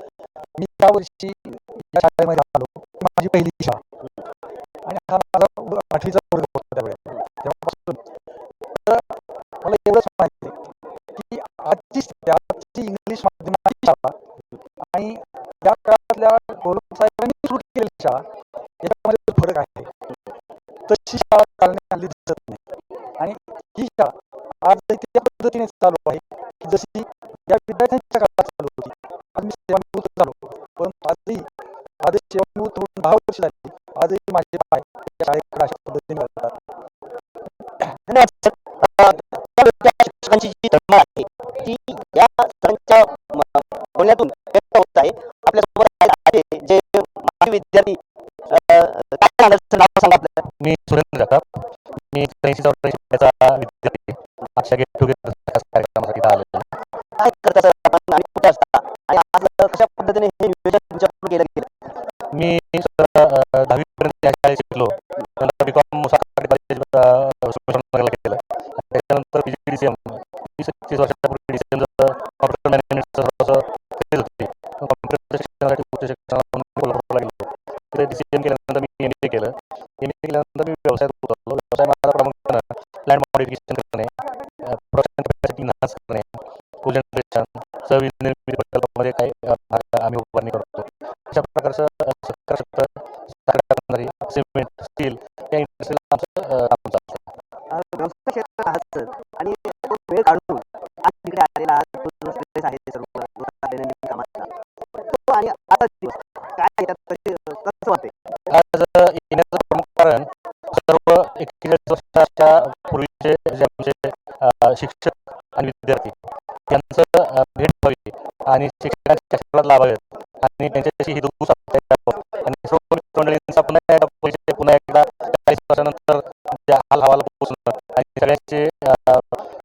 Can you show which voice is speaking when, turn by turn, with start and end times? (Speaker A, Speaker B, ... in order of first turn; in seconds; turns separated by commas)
Speaker A: 0.6-3.8, Speaker A: 4.8-8.0, Speaker A: 8.8-9.1, Speaker A: 9.6-10.6, Speaker A: 11.2-14.1, Speaker A: 14.9-18.2, Speaker A: 18.8-19.9, Speaker A: 20.9-22.6, Speaker A: 23.2-31.5, Speaker A: 32.0-36.6, Speaker B: 38.1-48.0, Speaker B: 48.5-50.4, Speaker C: 50.6-51.5, Speaker C: 52.1-56.7, Speaker B: 57.2-61.7, Speaker C: 62.3-84.1, Speaker C: 84.6-97.3, Speaker B: 97.7-104.5, Speaker B: 105.1-108.1, Speaker C: 108.5-116.1, Speaker C: 116.7-129.4